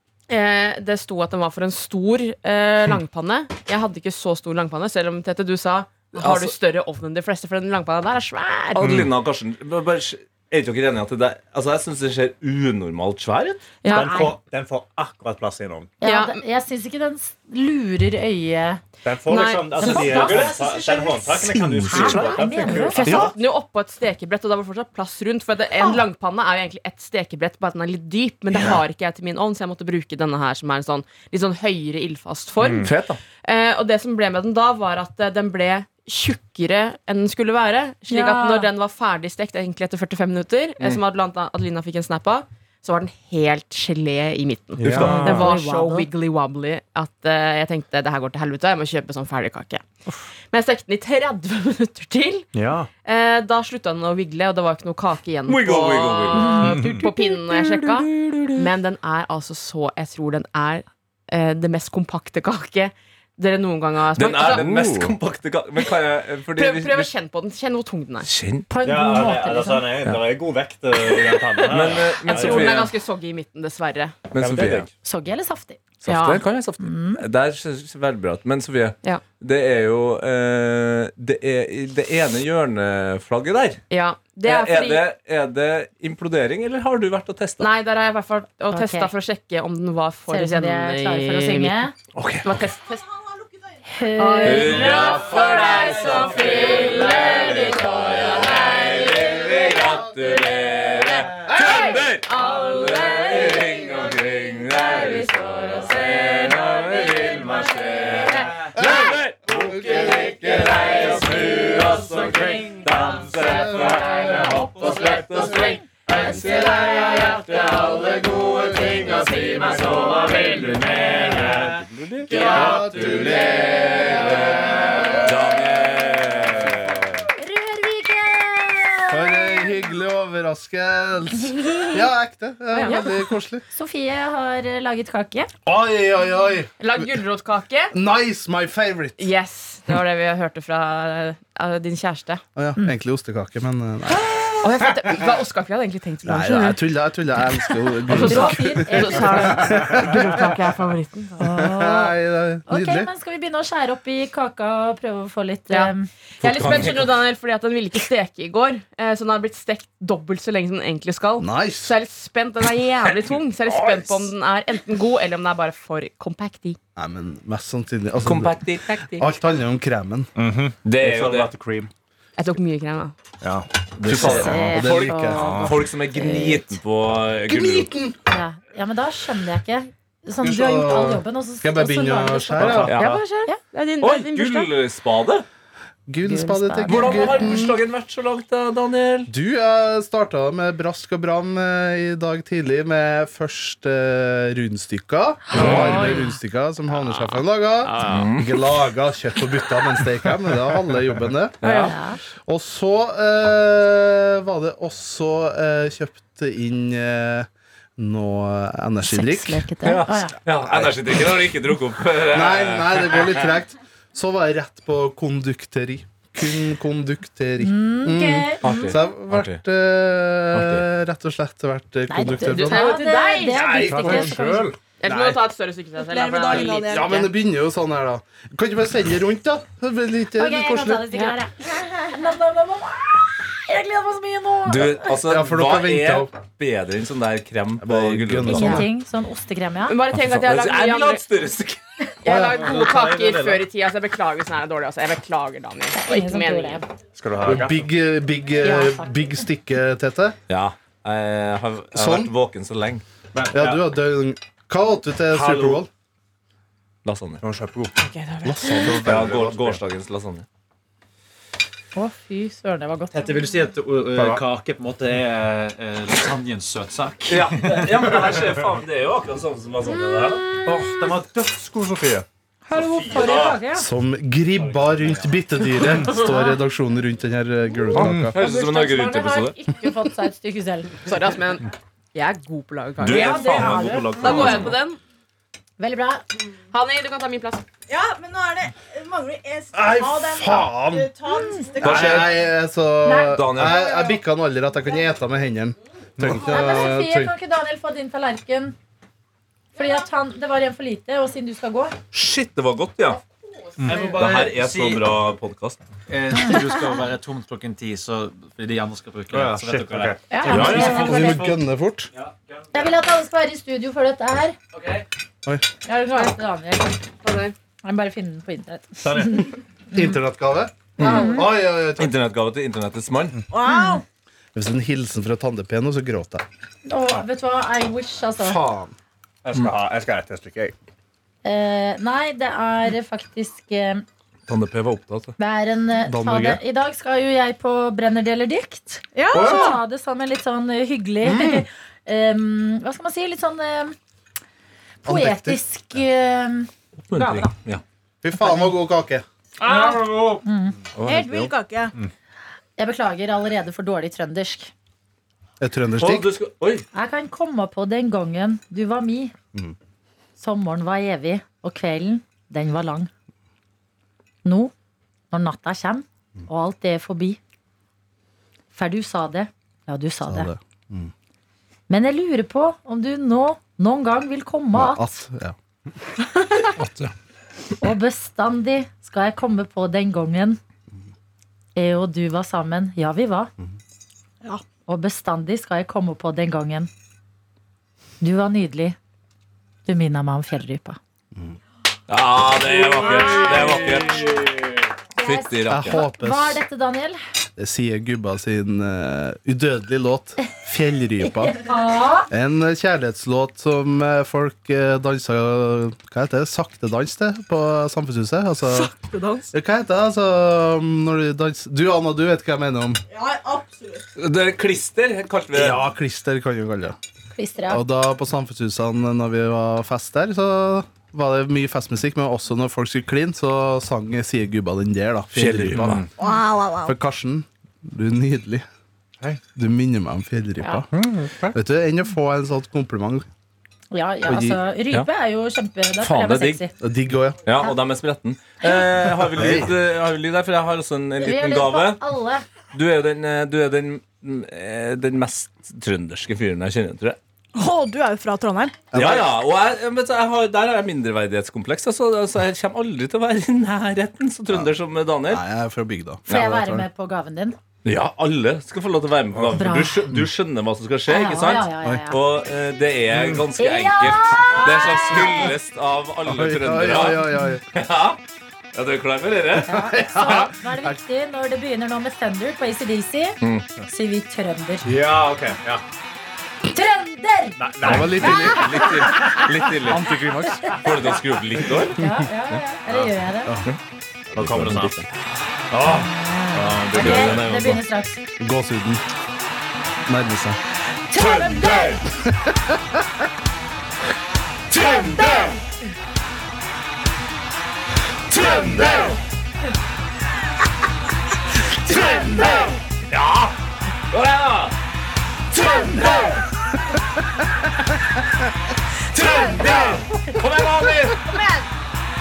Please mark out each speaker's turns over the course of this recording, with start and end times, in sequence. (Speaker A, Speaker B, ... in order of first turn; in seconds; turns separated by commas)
Speaker A: 0.3-8.9, Speaker B: 6.2-6.5, Speaker B: 8.8-13.8, Speaker C: 8.8-9.1, Speaker A: 13.8-14.1, Speaker D: 13.8-14.3, Speaker C: 13.9-15.9, Speaker D: 16.0-18.8, Speaker A: 16.0-16.4, Speaker C: 19.0-23.3, Speaker A: 19.3-20.4, Speaker D: 19.8-20.6, Speaker B: 19.9-20.7, Speaker B: 21.4-23.3, Speaker D: 21.9-23.1, Speaker A: 23.0-32.9, Speaker C: 32.6-32.9, Speaker B: 32.8-33.2, Speaker A: 33.4-49.9, Speaker D: 38.1-38.7, Speaker C: 44.8-45.5, Speaker B: 44.8-45.2, Speaker D: 44.9-46.1, Speaker A: 50.5-52.5, Speaker C: 52.5-52.9, Speaker A: 53.0-64.7, Speaker B: 55.5-56.8, Speaker D: 56.3-57.1, Speaker C: 56.6-57.0, Speaker B: 57.5-58.6, Speaker B: 64.1-67.1, Speaker C: 64.5-65.1, Speaker A: 66.5-68.3, Speaker B: 68.2-68.7, Speaker D: 68.7-70.0, Speaker C: 68.8-72.8, Speaker A: 71.1-71.7, Speaker B: 71.7-72.9, Speaker A: 72.2-74.2, Speaker B: 74.3-74.9, Speaker C: 74.3-74.9, Speaker D: 75.0-75.8, Speaker B: 76.0-83.8, Speaker A: 76.0-76.4, Speaker D: 76.8-77.2, Speaker A: 83.9-85.0, Speaker B: 84.4-87.7, Speaker A: 87.6-91.8, Speaker D: 88.7-89.1, Speaker D: 90.3-91.9, Speaker B: 92.1-92.6, Speaker A: 92.4-93.0, Speaker E: 92.9-93.8, Speaker D: 93.8-95.1, Speaker A: 94.2-99.0, Speaker B: 94.4-127.3, Speaker F: 108.8-110.3, Speaker F: 113.4-114.0, Speaker F: 122.3-125.3, Speaker D: 127.4-129.8, Speaker F: 129.1-133.6, Speaker D: 131.5-132.0, Speaker A: 132.7-133.0, Speaker D: 133.7-135.5, Speaker F: 135.7-137.1, Speaker A: 136.8-137.9, Speaker F: 137.9-139.3, Speaker A: 139.2-142.4, Speaker F: 142.6-144.5, Speaker A: 144.6-146.8, Speaker F: 146.2-150.5, Speaker A: 148.1-151.4, Speaker D: 148.2-149.6, Speaker D: 151.4-152.1, Speaker F: 151.4-153.1, Speaker D: 152.7-156.1, Speaker A: 155.7-166.8, Speaker B: 156.4-157.2, Speaker F: 161.4-161.9, Speaker B: 163.1-164.3, Speaker F: 166.9-170.3, Speaker B: 168.2-169.3, Speaker C: 170.3-171.9, Speaker B: 170.8-171.5, Speaker A: 172.4-173.1, Speaker C: 173.4-173.7, Speaker B: 174.0-177.9, Speaker F: 174.0-175.7, Speaker D: 174.1-176.8, Speaker C: 175.3-175.7, Speaker F: 177.5-178.2, Speaker D: 178.3-182.9, Speaker F: 180.4-183.0, Speaker C: 182.6-182.9, Speaker B: 182.8-183.2, Speaker A: 182.9-184.7, Speaker B: 184.0-185.4, Speaker F: 186.1-187.7, Speaker D: 186.2-187.6, Speaker B: 186.8-189.3, Speaker F: 189.3-201.6, Speaker D: 195.5-196.3, Speaker B: 195.6-196.1, Speaker A: 195.7-196.2, Speaker B: 197.9-198.7, Speaker B: 201.6-201.9, Speaker A: 201.6-201.9, Speaker D: 201.8-202.2, Speaker F: 202.4-209.7, Speaker D: 209.0-210.4, Speaker B: 209.8-213.5, Speaker F: 212.3-223.0, Speaker D: 217.6-218.9, Speaker B: 218.6-219.6, Speaker B: 220.5-220.8, Speaker D: 222.1-224.7, Speaker A: 222.5-223.8, Speaker B: 223.6-224.2, Speaker C: 223.7-225.3, Speaker F: 224.0-224.4, Speaker A: 225.0-227.2, Speaker E: 226.0-227.2, Speaker F: 226.7-231.1, Speaker D: 230.4-235.1, Speaker B: 234.7-238.8, Speaker F: 235.2-236.3, Speaker F: 237.8-238.9, Speaker D: 238.4-240.0, Speaker A: 239.9-241.2, Speaker B: 240.1-241.8, Speaker A: 242.2-246.8, Speaker F: 242.3-242.6, Speaker G: 242.4-243.6, Speaker D: 245.9-246.9, Speaker C: 247.1-247.8, Speaker F: 247.4-250.4, Speaker D: 248.6-249.4, Speaker B: 250.5-253.0, Speaker F: 251.9-252.3, Speaker C: 253.3-253.8, Speaker F: 253.5-255.9, Speaker C: 255.3-255.8, Speaker B: 257.0-257.4, Speaker C: 257.4-257.9, Speaker A: 258.0-258.9, Speaker F: 258.4-259.0, Speaker C: 258.6-259.8, Speaker B: 259.0-260.4, Speaker D: 261.9-263.3, Speaker G: 263.1-267.8, Speaker C: 264.1-264.4, Speaker B: 267.3-270.6, Speaker C: 270.7-272.2, Speaker G: 270.7-271.3, Speaker D: 272.7-273.9, Speaker B: 272.7-273.6, Speaker F: 273.7-278.3, Speaker G: 274.7-275.2, Speaker D: 276.0-276.6, Speaker B: 277.9-279.5, Speaker C: 277.9-278.3, Speaker D: 278.3-280.9, Speaker A: 281.0-285.0, Speaker B: 283.0-284.8, Speaker D: 283.1-284.6, Speaker D: 285.8-286.2, Speaker A: 286.7-287.6, Speaker E: 287.9-292.3, Speaker F: 289.7-291.1, Speaker B: 291.8-292.3, Speaker F: 291.8-297.3, Speaker D: 293.0-293.4, Speaker B: 293.3-293.8, Speaker E: 293.7-294.2, Speaker C: 296.2-296.5, Speaker D: 296.4-298.8, Speaker D: 299.7-301.9, Speaker B: 302.1-303.2, Speaker C: 303.8-304.1, Speaker G: 303.8-305.1, Speaker B: 304.1-305.8, Speaker G: 306.1-311.6, Speaker C: 309.3-310.5, Speaker D: 310.3-311.4, Speaker B: 310.4-311.2, Speaker F: 310.5-312.1, Speaker G: 312.1-312.9, Speaker D: 312.7-314.6, Speaker G: 314.7-315.0, Speaker D: 315.8-317.0, Speaker A: 317.2-317.5, Speaker D: 317.8-320.2, Speaker C: 319.0-319.4, Speaker F: 319.9-322.1, Speaker B: 321.0-321.4, Speaker D: 321.0-321.5, Speaker B: 322.0-323.4, Speaker E: 323.5-324.0, Speaker D: 323.6-324.0, Speaker F: 324.5-326.4, Speaker D: 326.9-328.6, Speaker F: 328.4-328.9, Speaker C: 329.4-330.7, Speaker D: 331.4-334.0, Speaker B: 334.5-335.4, Speaker D: 335.4-343.9, Speaker F: 336.1-336.6, Speaker E: 339.1-339.8, Speaker F: 339.3-339.8, Speaker F: 341.2-341.6, Speaker D: 345.0-347.5, Speaker F: 345.0-345.6, Speaker B: 347.1-347.8, Speaker F: 348.2-349.2, Speaker D: 348.4-348.7, Speaker G: 349.6-350.4, Speaker D: 349.7-350.8, Speaker B: 350.9-351.5, Speaker E: 351.0-351.9, Speaker D: 352.8-354.7, Speaker F: 355.6-356.3, Speaker B: 356.0-356.9, Speaker D: 356.9-359.3, Speaker D: 360.4-363.1, Speaker D: 364.4-364.7, Speaker D: 365.3-367.4, Speaker D: 368.7-370.5, Speaker F: 370.2-371.1, Speaker D: 371.9-375.2, Speaker F: 374.7-375.6, Speaker B: 376.7-377.1, Speaker D: 377.8-380.6, Speaker D: 381.7-383.5, Speaker D: 384.9-386.9, Speaker D: 388.2-389.0, Speaker D: 389.9-391.0, Speaker B: 392.1-394.6, Speaker E: 393.1-393.7, Speaker D: 395.2-397.2, Speaker B: 395.2-396.0, Speaker F: 395.7-396.6, Speaker F: 397.6-401.6, Speaker D: 401.4-402.3, Speaker F: 402.3-408.9, Speaker E: 408.6-409.5, Speaker F: 409.5-413.0, Speaker E: 413.1-414.1, Speaker B: 414.2-415.8, Speaker F: 415.5-416.9, Speaker D: 417.3-417.8, Speaker F: 417.7-426.1, Speaker B: 425.3-426.0, Speaker C: 425.7-426.1, Speaker E: 426.2-427.0, Speaker F: 426.8-428.6, Speaker F: 429.5-430.9, Speaker C: 430.9-431.6, Speaker F: 431.5-433.2, Speaker D: 433.9-436.7, Speaker F: 434.2-434.6, Speaker B: 436.0-436.6, Speaker F: 436.8-437.4, Speaker B: 437.4-442.0, Speaker F: 439.3-439.7, Speaker C: 439.4-439.7, Speaker D: 441.2-442.4, Speaker B: 442.7-447.2, Speaker E: 447.5-448.9, Speaker F: 448.9-449.4, Speaker B: 448.9-455.4, Speaker F: 454.5-454.7, Speaker F: 455.2-456.9, Speaker D: 456.3-457.6, Speaker B: 457.8-468.2, Speaker D: 459.6-460.1, Speaker D: 461.1-462.2, Speaker F: 461.8-462.1, Speaker D: 463.6-465.5, Speaker E: 464.5-465.3, Speaker F: 466.2-467.6, Speaker B: 468.7-470.4, Speaker F: 469.6-471.0, Speaker D: 469.6-474.9, Speaker B: 473.4-473.7, Speaker C: 474.8-475.8, Speaker D: 476.7-477.6, Speaker C: 477.6-478.6, Speaker F: 477.8-478.9, Speaker B: 477.8-480.1, Speaker D: 478.2-479.0, Speaker F: 479.8-480.8, Speaker B: 480.7-482.0, Speaker D: 482.0-483.5, Speaker F: 482.0-482.3, Speaker C: 484.3-484.9, Speaker B: 484.4-485.1, Speaker D: 485.8-488.2, Speaker C: 486.6-487.4, Speaker B: 486.7-487.8, Speaker F: 488.4-489.0, Speaker F: 490.1-490.6, Speaker D: 491.1-492.0, Speaker B: 491.2-491.7, Speaker F: 492.1-493.0, Speaker B: 494.7-495.5, Speaker D: 494.8-495.6, Speaker B: 498.3-499.2, Speaker B: 501.9-503.6, Speaker F: 501.9-502.7, Speaker B: 504.1-504.8, Speaker B: 505.5-506.4, Speaker B: 509.1-511.3, Speaker E: 511.2-511.6